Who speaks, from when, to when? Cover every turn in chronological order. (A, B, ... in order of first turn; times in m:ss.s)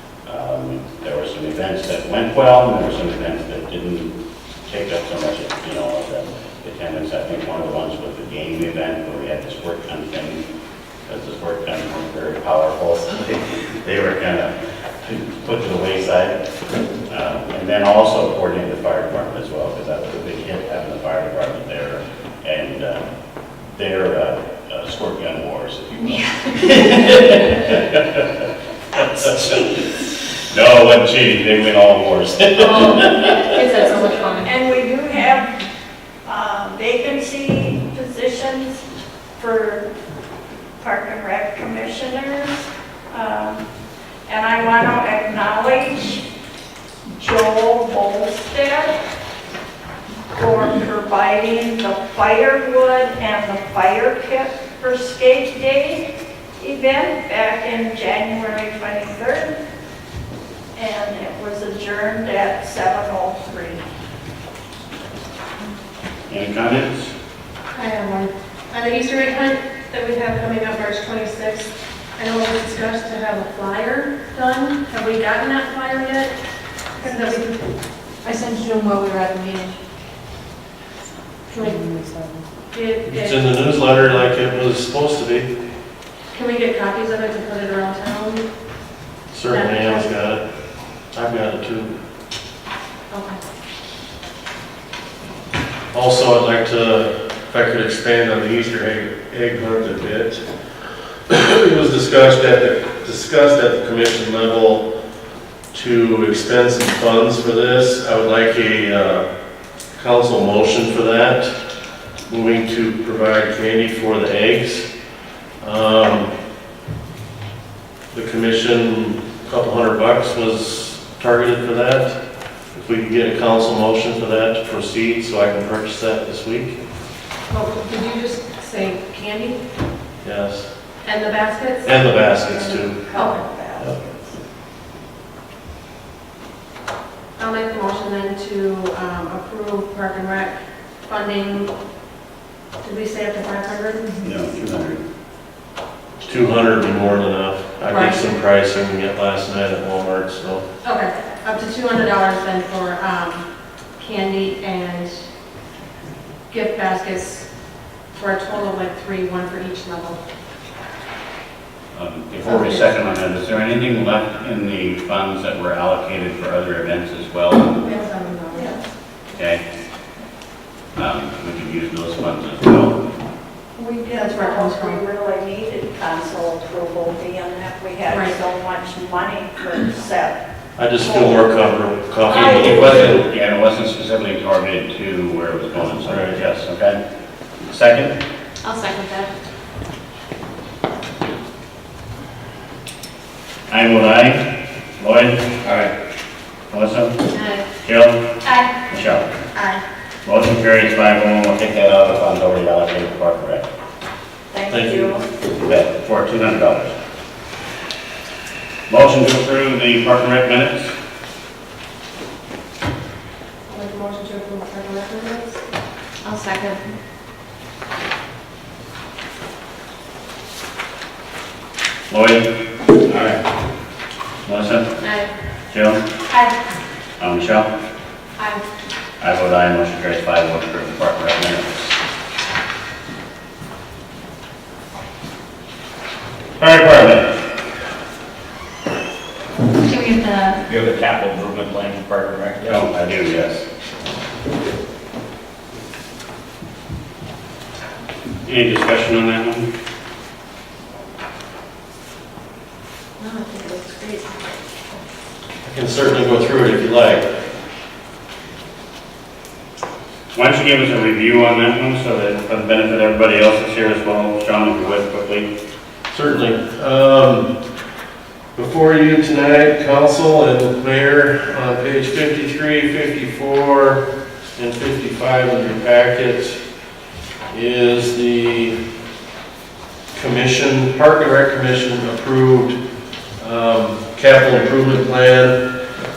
0:00.3-0:04.1 A
0:04.7-0:10.4 A
0:11.1-0:16.4 A
0:17.1-0:23.0 A
0:23.7-0:28.3 A
0:29.0-0:29.6 A
0:29.2-0:29.9 B
0:30.5-0:33.9 A
0:32.6-0:34.5 C
0:34.4-0:35.5 B
0:36.2-0:38.8 B
0:39.4-0:39.9 B
0:40.8-0:43.6 B
0:44.3-0:46.2 B
0:47.2-0:49.0 B
0:50.3-0:56.1 B
0:56.6-0:59.5 B
1:00.8-1:03.8 B
1:06.3-1:07.1 A
1:07.7-1:16.3 C
1:17.0-1:17.5 C
1:18.2-1:19.8 D
1:21.5-1:21.8 C
1:21.7-1:22.2 D
1:22.6-1:23.7 C
1:23.1-1:25.5 E
1:26.3-1:28.5 C
1:29.3-1:30.4 E
1:29.5-1:30.1 C
1:31.1-1:32.0 E
1:33.1-1:33.4 C
1:35.9-1:40.4 E
1:41.3-1:44.9 E
1:45.7-1:49.3 E
1:50.0-1:51.6 E
1:52.3-1:54.9 E
1:55.6-1:56.3 E
1:58.1-2:02.2 E
2:02.7-2:06.8 E
2:07.5-2:09.6 C
2:10.2-2:10.7 E
2:11.0-2:11.9 C
2:11.8-2:13.0 E
2:12.4-2:14.3 B
2:13.2-2:13.4 C
2:17.4-2:21.7 C
2:22.8-2:24.2 C
2:24.2-2:25.0 A
2:26.2-2:30.6 E
2:27.9-2:28.3 C
2:30.8-2:33.4 C
2:34.0-2:35.2 C
2:36.5-2:37.5 C
2:38.2-2:40.2 C
2:41.9-2:47.8 A
2:42.4-2:42.9 C
2:47.8-2:48.7 C
2:48.5-2:48.8 B
2:49.4-2:49.6 A
2:51.0-2:53.0 A
2:53.8-3:00.4 B
2:54.1-2:55.0 C
2:58.1-2:58.4 C
3:00.8-3:03.2 E
3:01.0-3:01.5 B
3:02.2-3:03.2 B
3:02.4-3:07.0 A
3:06.0-3:06.4 E
3:07.7-3:08.1 A
3:08.6-3:09.3 D
3:13.7-3:14.4 A
3:15.0-3:15.5 A
3:15.6-3:15.9 F
3:16.7-3:17.2 A
3:17.8-3:18.2 A
3:18.9-3:19.3 A
3:19.6-3:19.8 C
3:20.2-3:23.7 A
3:24.5-3:25.3 B
3:24.7-3:25.1 E
3:25.5-3:26.9 A
3:28.9-3:30.9 A
3:33.7-3:35.6 C
3:36.2-3:36.8 D
3:42.1-3:42.5 A
3:43.1-3:43.4 F
3:44.4-3:44.9 A
3:45.0-3:45.3 C
3:45.7-3:46.0 A
3:47.2-3:47.7 A
3:48.4-3:48.6 C
3:49.2-3:52.0 A
3:56.6-3:57.3 A
3:59.7-4:00.6 D
4:00.7-4:02.8 F
4:02.7-4:03.6 A
4:08.4-4:09.7 A
4:13.2-4:14.2 D
4:15.6-4:17.3 E
4:20.3-4:25.5 A
4:26.1-4:27.5 E
4:28.6-4:34.0 E
4:34.6-4:36.6 E
4:37.5-4:38.8 E
4:40.1-4:42.8 E
4:43.4-4:45.6 E